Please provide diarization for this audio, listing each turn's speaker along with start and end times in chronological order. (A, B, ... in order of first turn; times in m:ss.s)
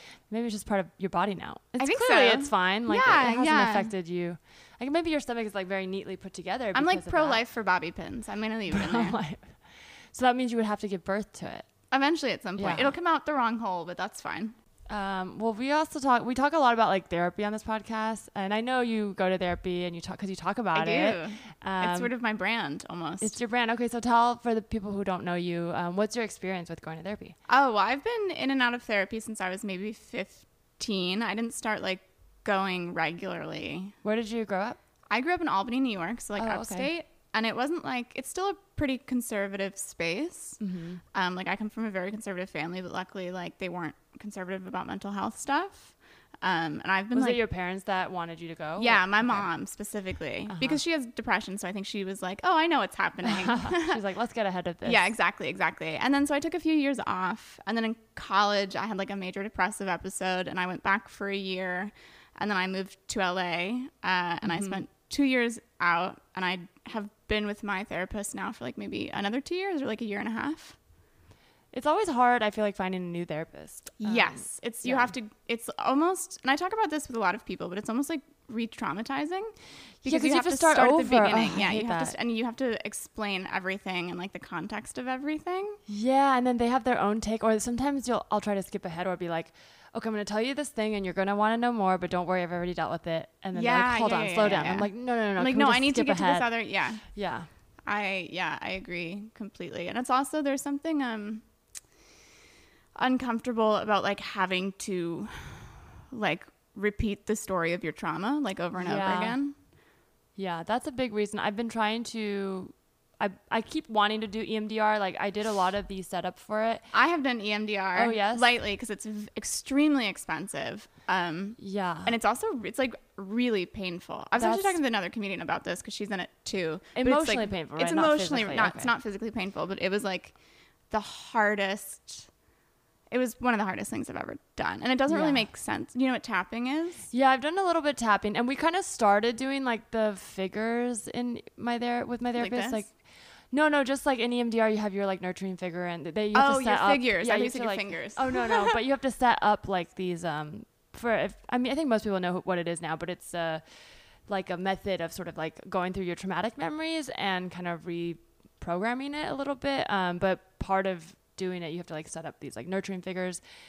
0:00.3-0:07.4 A
0:01.8-0:03.9 B
0:06.8-0:09.2 B
0:08.7-0:09.6 A
0:10.1-0:11.7 A
0:11.9-0:14.5 B
0:12.6-0:12.9 A
0:14.9-0:22.1 A
0:20.8-0:23.4 B
0:23.2-0:27.4 A
0:27.5-0:34.0 B
0:34.0-0:34.8 A
0:35.1-0:40.6 B
0:36.4-0:36.9 A
0:40.6-0:41.0 A
0:41.1-0:47.4 B
0:47.1-0:49.5 A
0:48.8-0:54.0 B
0:50.5-0:50.8 A
0:53.2-0:55.1 A
0:54.8-1:10.8 B
1:04.4-1:04.8 A
1:11.7-1:15.1 A
1:14.0-1:25.8 B
1:20.0-1:22.1 A
1:25.9-1:36.5 A
1:33.5-1:37.0 B
1:37.1-1:37.5 A
1:37.8-1:41.4 B
1:43.0-1:49.5 B
1:48.8-1:49.4 A
1:50.4-1:56.9 A
1:56.9-2:10.3 B
1:57.9-1:58.5 A
2:01.6-2:02.2 A
2:04.4-2:04.8 A
2:06.9-2:08.9 A
2:10.9-2:12.3 B
2:13.1-2:17.1 B
2:15.1-2:15.4 A
2:17.1-2:22.9 A
2:22.4-2:22.8 B
2:23.5-2:33.6 A
2:26.3-2:28.8 B
2:34.3-2:43.4 A